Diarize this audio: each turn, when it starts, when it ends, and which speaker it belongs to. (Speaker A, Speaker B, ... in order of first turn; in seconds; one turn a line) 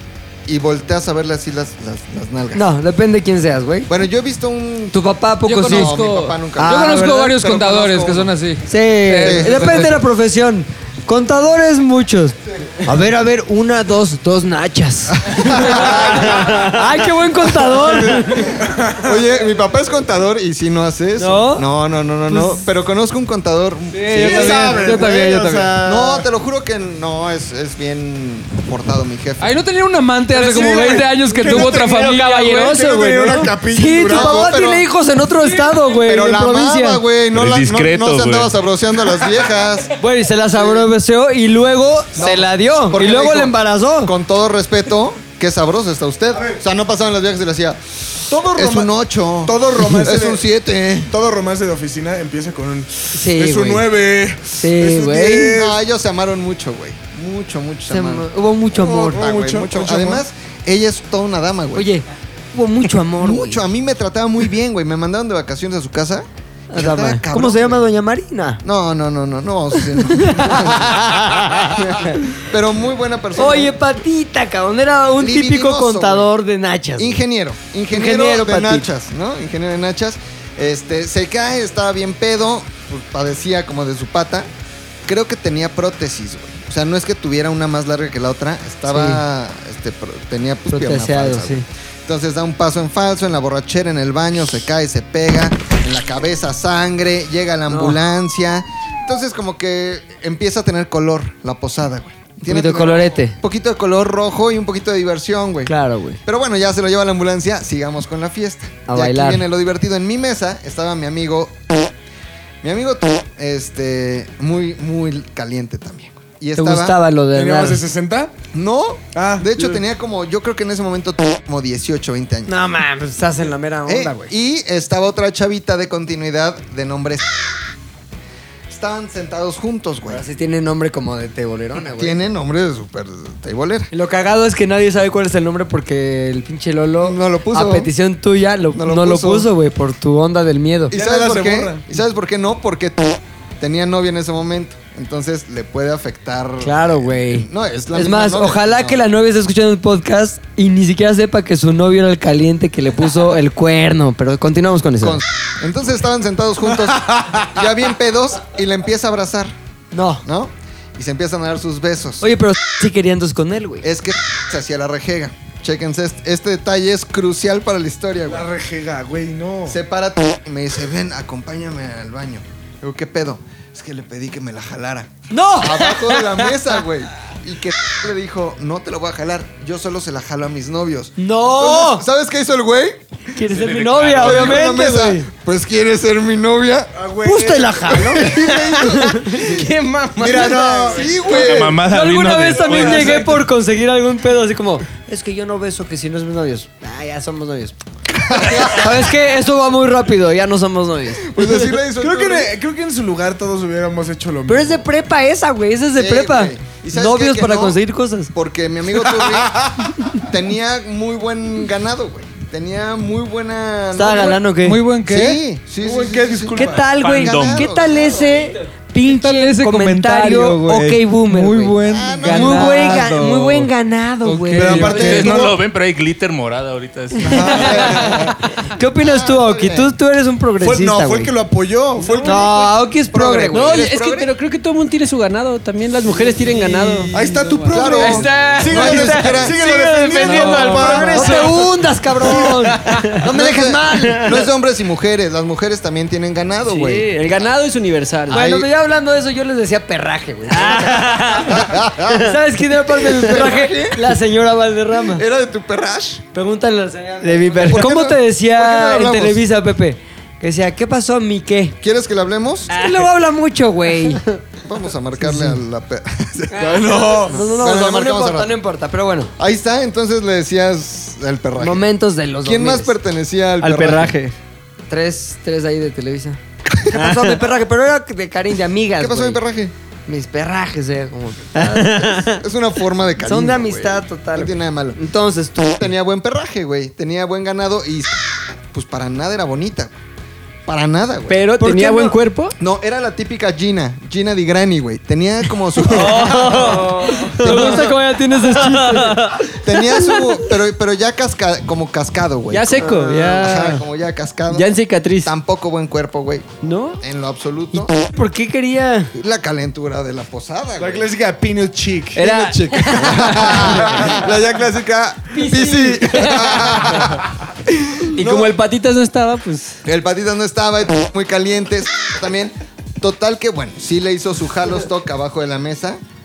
Speaker A: 0.5-2.6
Speaker B: 2.5-3.9
Speaker A: 3.9-5.0
Speaker B: 4.9-6.0
Speaker C: 5.5-10.0
Speaker A: 5.6-8.3
Speaker B: 6.6-7.3
Speaker B: 8.7-18.6
Speaker A: 9.2-9.9
Speaker A: 15.2-16.6
Speaker A: 17.8-25.2
Speaker D: 18.6-19.1
Speaker B: 21.2-21.7
Speaker D: 24.0-26.1
Speaker C: 24.1-25.1
Speaker B: 24.2-25.7
Speaker A: 25.7-29.6
Speaker C: 29.4-33.5
Speaker D: 30.3-34.5
Speaker B: 33.6-37.0
Speaker A: 34.1-34.8
Speaker C: 35.4-35.7
Speaker A: 36.0-39.9
Speaker E: 37.3-38.5
Speaker B: 40.0-44.1
Speaker A: 40.5-40.9
Speaker A: 42.1-51.1
Speaker D: 48.3-48.9
Speaker D: 49.4-50.4
Speaker D: 51.1-55.8
Speaker B: 53.1-53.9
Speaker B: 54.5-55.6
Speaker A: 55.5-61.9
Speaker B: 57.9-59.2
Speaker D: 58.8-60.2
Speaker B: 61.7-63.6
Speaker A: 63.2-67.8
Speaker B: 66.7-68.6
Speaker A: 68.6-73.7
Speaker B: 70.0-72.2
Speaker B: 73.4-77.2
Speaker A: 75.2-76.3
Speaker A: 77.0-84.5
Speaker B: 77.9-78.9
Speaker A: 85.0-111.9
Speaker B: 88.9-89.2
Speaker B: 90.7-91.7
Speaker B: 97.7-98.0
Speaker B: 102.4-103.4
Speaker B: 105.7-106.2
Speaker B: 108.9-109.4
Speaker A: 112.6-117.0
Speaker B: 116.5-117.8
Speaker D: 117.3-118.3
Speaker A: 118.5-122.5
Speaker D: 119.1-119.8
Speaker B: 122.5-124.3
Speaker A: 123.9-127.5
Speaker A: 128.7-130.2
Speaker B: 130.1-132.2
Speaker A: 131.9-133.9
Speaker B: 133.9-140.9
Speaker A: 137.0-137.9
Speaker A: 138.7-139.5
Speaker D: 140.9-141.9
Speaker A: 140.9-149.0
Speaker B: 146.6-155.2
Speaker A: 155.0-159.5
Speaker B: 159.9-160.2
Speaker A: 160.2-162.3
Speaker B: 162.2-163.9
Speaker A: 163.8-168.5
Speaker D: 168.3-169.8
Speaker A: 169.7-183.0
Speaker B: 175.3-176.5
Speaker B: 181.2-182.1
Speaker B: 183.3-185.3
Speaker D: 183.5-184.6
Speaker A: 184.1-186.9
Speaker D: 186.9-188.5
Speaker B: 187.2-189.7
Speaker A: 188.0-189.4
Speaker D: 189.4-191.4
Speaker A: 190.2-191.8
Speaker B: 190.3-191.1
Speaker E: 191.3-193.2
Speaker B: 191.8-197.8
Speaker D: 192.5-193.4
Speaker A: 198.1-199.1
Speaker B: 198.3-201.7
Speaker A: 201.2-202.5
Speaker D: 201.9-204.8
Speaker B: 204.5-208.3
Speaker A: 205.9-207.8
Speaker A: 208.3-214.4
Speaker D: 209.4-209.8
Speaker B: 213.9-214.8
Speaker C: 214.6-215.4
Speaker A: 215.0-218.4
Speaker D: 215.8-216.9
Speaker B: 216.5-225.2
Speaker E: 217.0-217.7
Speaker F: 218.2-218.6
Speaker C: 219.0-223.7
Speaker A: 221.8-223.2
Speaker C: 224.2-225.4
Speaker D: 224.5-225.5
Speaker A: 224.6-225.5
Speaker E: 224.9-228.0
Speaker D: 227.2-228.3
Speaker B: 227.3-231.3
Speaker A: 227.4-228.2
Speaker A: 228.9-229.9
Speaker D: 230.6-232.8
Speaker F: 232.1-232.3
Speaker B: 232.2-233.9
Speaker A: 233.1-234.3
Speaker F: 233.5-241.6
Speaker D: 236.3-241.6
Speaker A: 237.7-239.6
Speaker B: 240.2-244.4
Speaker A: 240.3-240.7
Speaker D: 242.2-242.7
Speaker F: 242.4-243.2
Speaker A: 243.2-247.2
Speaker F: 246.7-248.4
Speaker A: 248.3-248.7
Speaker B: 248.3-255.2
Speaker F: 250.5-251.6
Speaker A: 251.5-252.3
Speaker A: 252.9-254.2
Speaker A: 255.1-256.2
Speaker B: 256.3-261.8
Speaker F: 257.2-258.0
Speaker A: 257.6-259.4
Speaker A: 261.8-262.7
Speaker B: 262.7-264.2
Speaker F: 262.7-263.0
Speaker A: 264.6-268.5
Speaker B: 265.2-265.6
Speaker D: 266.6-267.4
Speaker B: 266.9-269.3
Speaker A: 269.4-271.8
Speaker B: 271.6-272.9
Speaker A: 272.4-274.1
Speaker F: 273.6-274.3
Speaker B: 274.9-279.4
Speaker A: 279.0-279.7
Speaker B: 280.1-282.3
Speaker F: 281.6-282.2
Speaker A: 282.2-285.0
Speaker B: 283.2-285.8
Speaker A: 285.8-289.9
Speaker A: 290.6-291.4
Speaker F: 291.3-292.5
Speaker B: 291.6-292.1
Speaker A: 292.6-297.9
Speaker F: 295.9-299.5
Speaker B: 295.9-299.5
Speaker A: 299.5-306.5
Speaker F: 302.5-303.8
Speaker B: 302.8-303.4
Speaker F: 304.5-305.3
Speaker F: 306.6-306.9
Speaker A: 307.0-307.9
Speaker B: 307.7-309.1
Speaker A: 309.1-311.1
Speaker D: 310.8-314.1
Speaker F: 312.1-313.3
Speaker A: 312.2-318.5
Speaker B: 315.3-316.7
Speaker F: 318.1-319.8
Speaker A: 319.8-326.0